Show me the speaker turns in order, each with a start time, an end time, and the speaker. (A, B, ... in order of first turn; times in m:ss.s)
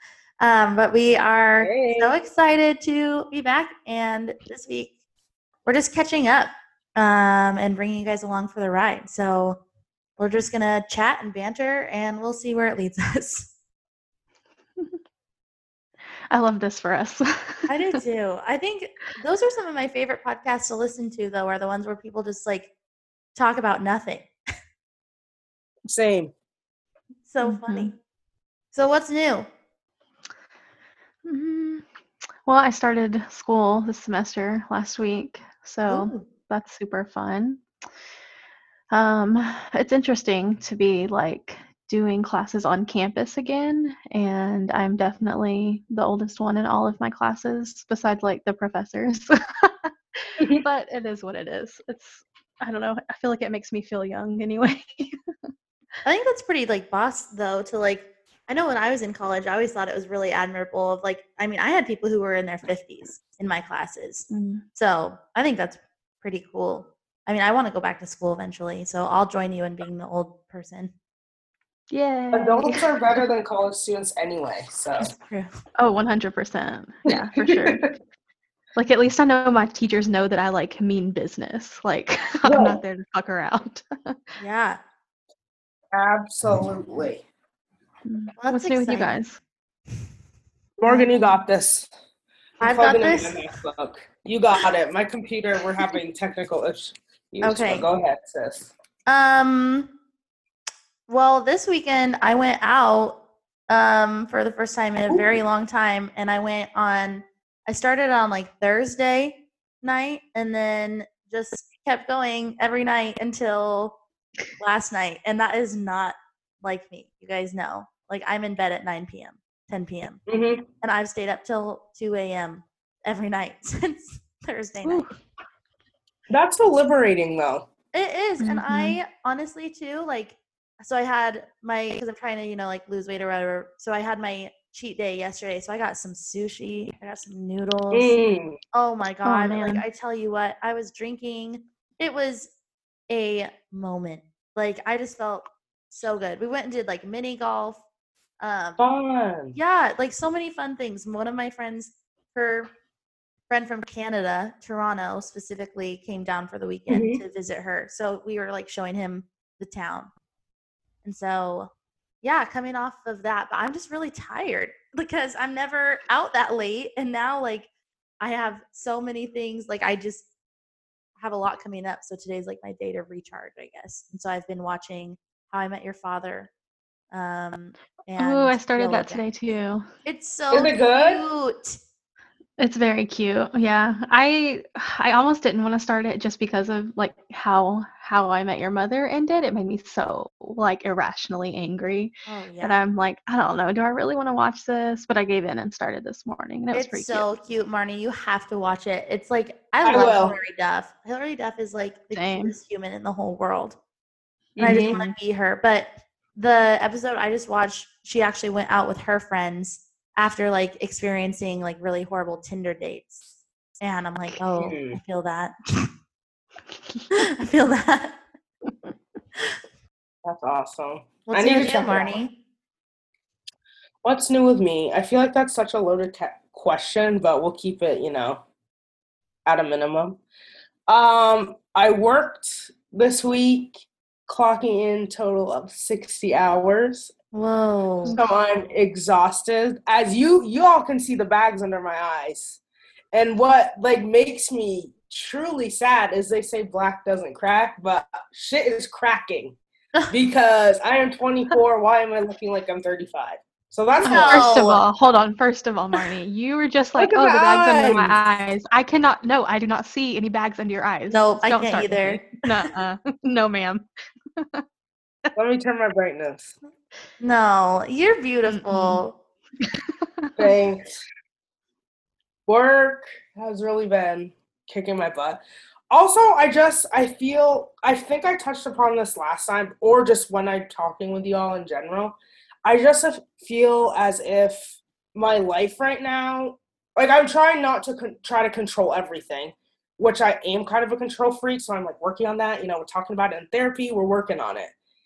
0:00.4-0:04.9 A
0:01.6-0:02.2 B
0:05.6-0:09.6 A
0:10.2-0:13.5 A
0:16.3-0:17.8 C
0:17.7-0:22.7 A
0:23.3-0:24.3 A
0:25.8-0:26.3 B
0:27.3-0:27.9 A
0:27.4-0:27.9 C
0:28.7-0:29.5 A
0:31.2-0:31.8 C
0:32.4-0:37.6 C
0:35.9-0:36.2 A
0:38.9-0:55.2 C
0:50.4-0:50.6 B
0:56.0-1:10.9 A
1:04.3-1:04.6 C
1:11.9-1:12.8 C
1:12.3-1:15.1 B
1:15.0-1:15.5 A
1:15.8-1:17.8 C
1:17.4-1:17.9 B
1:18.8-1:24.2 C
1:22.4-1:22.8 B
1:24.4-1:24.8 A
1:25.9-1:27.2 B
1:28.0-1:29.4 C
1:28.4-1:29.1 A
1:30.8-1:31.9 B
1:32.6-1:33.4 A
1:32.6-1:38.7 B
1:37.4-1:37.8 A
1:39.0-1:39.9 A
1:41.1-1:54.0 A
1:54.6-2:00.2 A
2:00.3-2:00.6 B
2:00.8-2:05.1 A
2:04.8-2:05.1 C
2:06.3-2:07.6 B
2:07.9-2:18.2 A
2:08.4-2:09.0 C
2:17.9-2:18.6 B
2:18.7-2:22.5 A
2:19.2-2:19.8 C
2:23.1-2:27.8 A
2:28.4-2:28.8 A
2:28.8-2:29.6 B
2:29.5-2:32.7 A
2:33.5-2:40.1 A
2:36.9-2:37.2 B
2:41.0-2:41.7 A
2:42.2-2:47.7 A
2:48.2-2:50.2 A
2:51.2-2:56.5 A
2:57.1-2:59.2 A
2:58.2-2:59.8 C
3:00.0-3:01.8 A
3:00.5-3:01.2 B
3:02.6-3:17.2 C
3:12.3-3:12.8 A
3:16.7-3:23.8 A
3:19.8-3:20.4 B
3:22.1-3:22.6 C
3:24.6-3:25.0 B
3:24.6-3:25.1 C
3:24.6-3:33.2 A
3:33.8-3:35.9 A
3:34.6-3:35.0 B
3:37.1-3:38.2 A
3:40.2-3:42.2 B
3:41.3-3:42.3 A
3:44.0-3:48.4 B
3:49.4-3:50.2 B
3:50.9-3:53.7 B
3:54.3-3:57.1 B
3:57.3-3:58.2 A
3:58.1-4:02.6 B
4:03.1-4:09.6 B
4:10.1-4:14.5 B
4:14.0-4:14.8 A
4:14.0-4:23.8 C
4:17.0-4:18.2 B
4:21.1-4:22.4 A
4:24.4-4:24.6 C
4:25.4-4:26.5 B
4:27.2-4:29.2 A
4:28.4-4:29.0 C
4:29.6-4:30.3 C
4:30.4-4:30.9 B
4:32.5-4:54.7 B